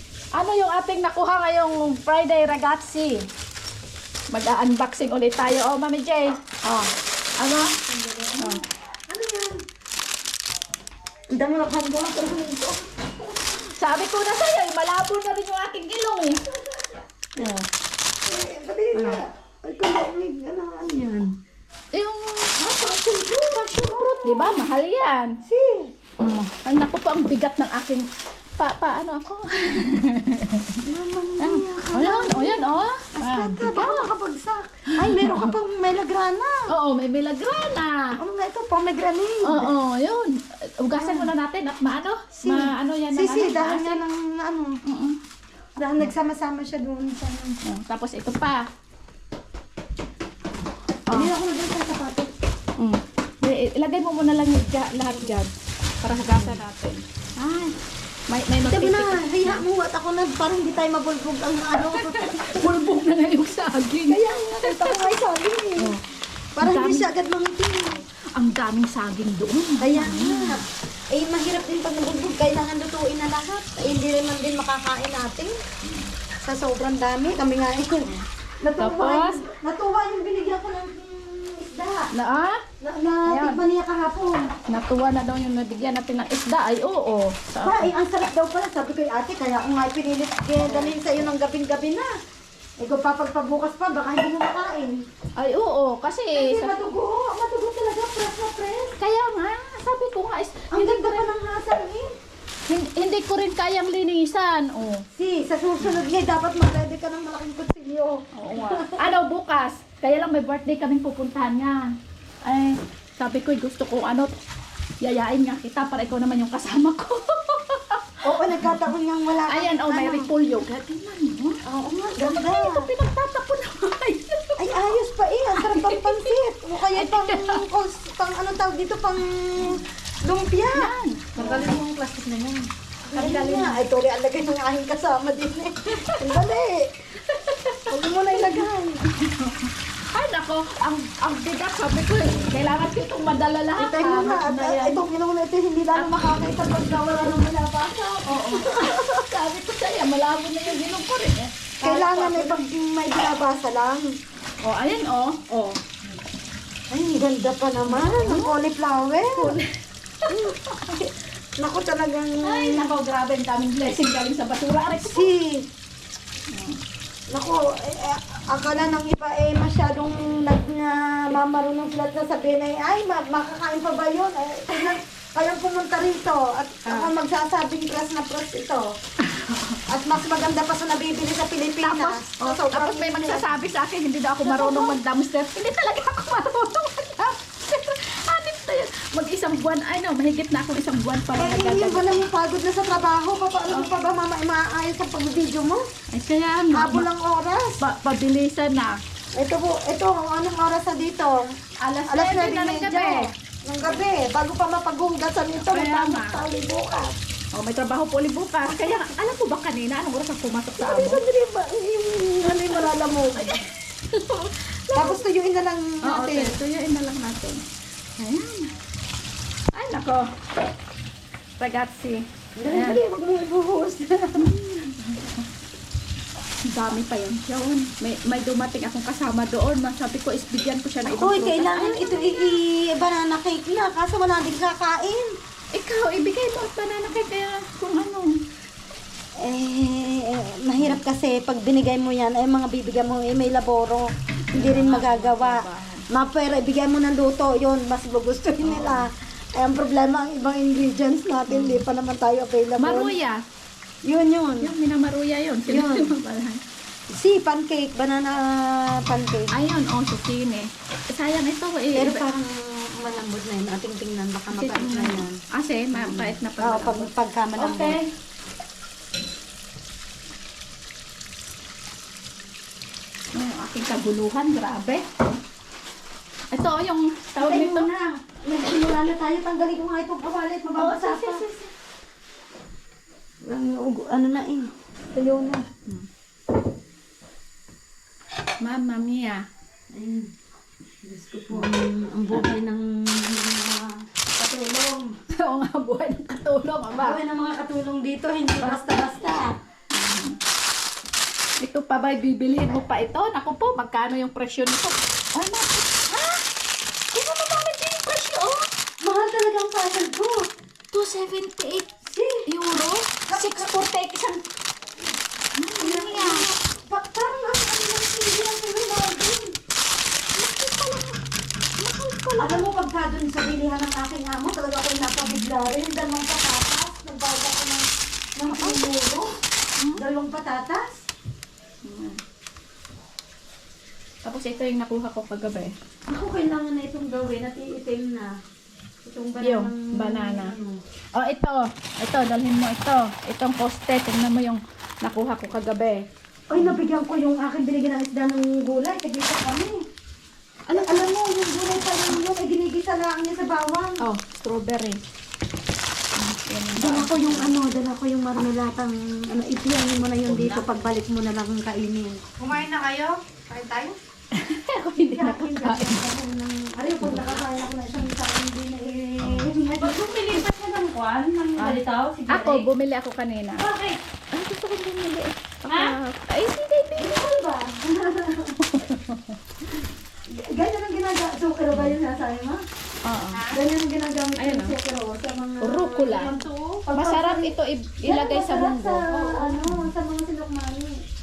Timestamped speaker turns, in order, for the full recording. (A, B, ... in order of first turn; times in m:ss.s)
0:00.4-0:03.2 A
0:04.3-0:06.9 A
0:07.4-0:07.7 A
0:07.9-0:09.6 B
0:11.3-0:12.8 B
0:13.7-0:16.4 A
0:17.4-0:17.7 A
0:18.3-0:21.3 B
0:18.9-0:19.2 A
0:21.9-0:25.4 A
0:22.6-0:24.7 B
0:25.5-0:25.9 B
0:26.2-0:28.1 A
0:28.6-0:30.8 A
0:30.8-0:36.7 B
0:31.4-0:34.1 A
0:34.9-0:35.5 A
0:36.7-0:38.2 A
0:38.2-0:39.7 B
0:39.4-0:44.0 A
0:41.0-0:41.3 B
0:42.4-0:44.8 B
0:44.9-0:45.2 A
0:45.8-0:47.6 B
0:47.7-0:48.7 A
0:51.1-0:52.3 B
0:52.8-0:55.5 A
0:56.0-0:57.8 A
0:56.1-0:56.6 B
0:58.3-0:59.6 A
0:58.7-1:02.8 B
1:01.8-1:05.2 A
1:04.1-1:06.0 B
1:06.6-1:08.0 B
1:06.6-1:07.1 A
1:08.4-1:10.6 A
1:09.8-1:10.6 B
1:11.1-1:15.6 B
1:15.8-1:16.1 A
1:16.4-1:22.1 B
1:18.8-1:19.4 A
1:22.1-1:22.6 A
1:22.8-1:24.5 B
1:23.3-1:23.6 A
1:24.7-1:27.9 A
1:27.6-1:32.2 B
1:30.6-1:31.0 A
1:32.8-1:35.0 B
1:35.4-1:36.8 A
1:36.4-1:39.0 B
1:39.0-1:41.3 A
1:40.7-1:42.1 B
1:42.7-1:45.0 A
1:45.2-1:49.0 B
1:48.4-1:51.9 A
1:52.4-1:54.3 A
1:55.0-1:58.8 A
1:58.2-2:00.3 B
1:59.5-2:01.6 A
2:01.7-2:02.9 B
2:02.2-2:05.0 A
2:04.6-2:12.6 B
2:05.6-2:06.4 A
2:06.9-2:07.6 A
2:10.8-2:13.8 A
2:13.1-2:16.9 B
2:16.0-2:16.4 A
2:17.3-2:25.0 A
2:17.9-2:19.1 B
2:23.8-2:29.0 B
2:26.0-2:26.2 A
2:28.3-2:32.6 A
2:31.8-2:34.1 B
2:34.6-2:35.8 A
2:36.9-2:39.6 B
2:37.9-2:38.6 A
2:39.3-2:39.7 A
2:40.2-2:41.0 A
2:40.3-2:40.6 B
2:41.6-2:42.9 B
2:42.4-2:45.3 A
2:45.0-2:45.7 B
2:46.5-2:46.8 A
2:47.3-2:58.9 B
2:56.9-2:57.1 A
2:59.2-2:59.8 A
2:59.9-3:03.5 B
3:01.8-3:12.2 A
3:04.4-3:05.0 B
3:11.4-3:15.8 B
3:16.1-3:17.1 A
3:16.7-3:17.8 B
3:17.8-3:19.0 A
3:19.4-3:21.4 B
3:21.8-3:23.3 A
3:22.1-3:27.1 B
3:25.6-3:26.4 A
3:27.5-3:31.2 A
3:30.8-3:33.6 B
3:32.4-3:35.2 A
3:35.0-3:36.6 B
3:36.0-3:37.6 A
3:38.2-3:38.7 A
3:39.7-3:40.3 A
3:41.6-3:43.0 A
3:42.6-3:44.5 B
3:44.4-3:45.4 A
3:46.7-3:52.4 A
3:51.1-3:55.3 B
3:55.7-3:58.3 A
3:59.4-4:13.2 B
4:04.5-4:06.1 A
4:08.6-4:09.1 A
4:11.5-4:11.8 A
4:12.8-4:13.4 A
4:14.0-4:14.7 B
4:14.6-4:16.6 A
4:15.7-4:16.1 B
4:17.1-4:19.6 B
4:19.5-4:22.3 A
4:22.0-4:25.4 B
4:24.5-4:28.1 A
4:25.9-4:28.0 B
4:33.4-4:35.3 A
4:36.5-4:37.9 A
4:37.4-4:41.4 B
4:40.8-4:41.7 A
4:43.5-4:45.7 B
4:48.6-4:49.4 A
4:49.9-4:50.3 B
4:51.0-4:55.1 B
4:55.3-4:57.2 A
4:57.0-4:59.6 B
4:58.6-4:58.9 A
4:59.9-5:00.4 A
5:01.6-5:06.4 A
5:07.1-5:08.7 A
5:09.0-5:10.5 B
5:10.9-5:11.9 A
5:12.1-5:12.5 B
5:12.5-5:14.4 A
5:13.3-5:13.7 B
5:15.6-5:16.5 A
5:15.8-5:19.5 B
5:20.4-5:21.2 A
5:21.8-5:22.7 A
5:22.4-5:29.3 B
5:28.5-5:28.8 A
5:30.0-5:31.0 B
5:31.8-5:32.2 A
5:34.2-5:35.7 A
5:36.1-5:38.4 B
5:39.0-5:40.8 B
5:39.4-5:40.6 A
5:41.1-5:46.8 A
5:46.5-5:49.8 B
5:50.7-5:51.1 A
5:50.7-5:54.0 B
5:54.0-5:55.0 A
5:56.2-5:57.6 A
5:56.8-6:04.0 B
6:00.3-6:00.6 C
6:04.3-6:06.0 A
6:05.0-6:10.4 B
6:07.0-6:07.4 A
6:09.2-6:09.5 A
6:09.8-6:12.7 C
6:11.6-6:13.7 A
6:13.6-6:14.0 B
6:14.3-6:17.2 A
6:17.0-6:18.6 B
6:18.6-6:19.4 A
6:20.3-6:22.6 B
6:21.7-6:22.0 A
6:23.0-6:23.5 A
6:23.4-6:23.6 C
6:23.5-6:31.0 B
6:24.4-6:24.8 A
6:25.6-6:26.4 A
6:26.1-6:26.9 C
6:26.9-6:29.9 A
6:29.1-6:29.6 C